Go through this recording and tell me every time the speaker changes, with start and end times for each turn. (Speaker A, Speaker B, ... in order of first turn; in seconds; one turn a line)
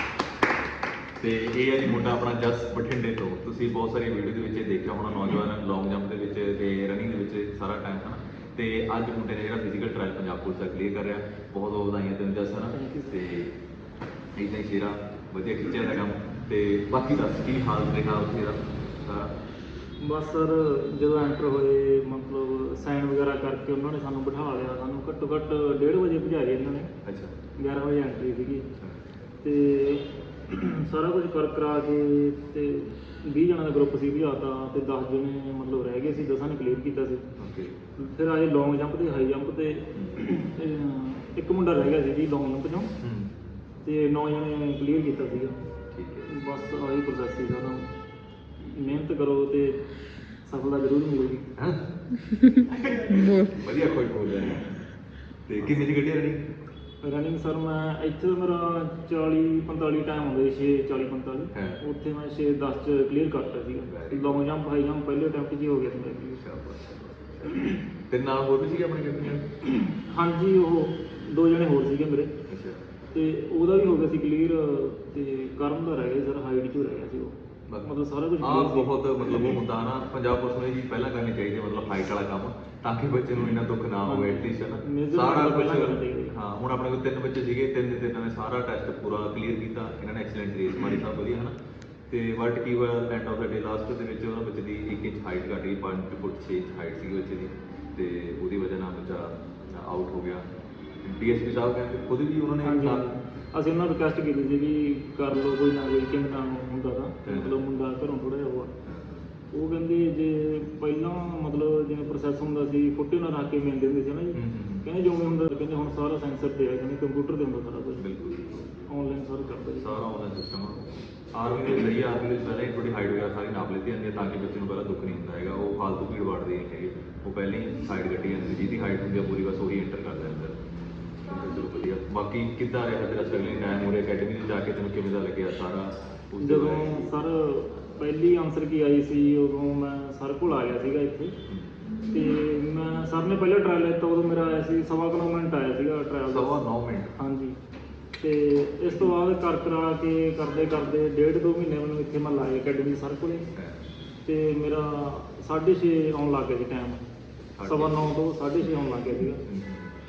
Speaker A: 1.2-13.5
Speaker B: 12.7-13.2
Speaker A: 14.4-19.4
Speaker B: 20.0-26.9
Speaker A: 27.1-27.3
Speaker B: 27.6-28.7
Speaker B: 29.4-37.3
Speaker A: 37.4-37.8
Speaker B: 38.0-42.9
Speaker A: 39.9-40.2
Speaker A: 43.0-43.5
Speaker B: 43.8-45.6
Speaker A: 45.9-46.4
Speaker B: 46.3-47.9
Speaker B: 48.6-49.8
Speaker B: 50.5-51.5
Speaker A: 51.6-51.9
Speaker A: 52.5-54.8
Speaker A: 55.5-56.4
Speaker B: 57.0-66.4
Speaker A: 61.5-61.8
Speaker A: 63.9-64.5
Speaker A: 66.4-69.5
Speaker B: 69.6-72.3
Speaker A: 72.5-72.8
Speaker B: 73.1-78.9
Speaker A: 77.7-91.5
Speaker B: 84.1-86.3
Speaker A: 92.1-100.5
Speaker A: 101.0-103.1
Speaker B: 102.6-108.7
Speaker A: 107.2-107.6
Speaker A: 108.8-109.3
Speaker B: 109.5-118.0
Speaker A: 114.3-114.9
Speaker A: 118.0-118.7
Speaker B: 118.8-120.0
Speaker A: 119.8-130.6
Speaker A: 131.2-137.1
Speaker B: 136.4-141.3
Speaker A: 141.5-141.7
Speaker B: 142.1-146.6
Speaker A: 146.3-147.2
Speaker B: 147.2-147.6
Speaker B: 148.2-153.5
Speaker A: 153.6-153.8
Speaker B: 154.2-157.0
Speaker A: 157.6-158.2
Speaker B: 157.6-159.4
Speaker A: 159.5-159.9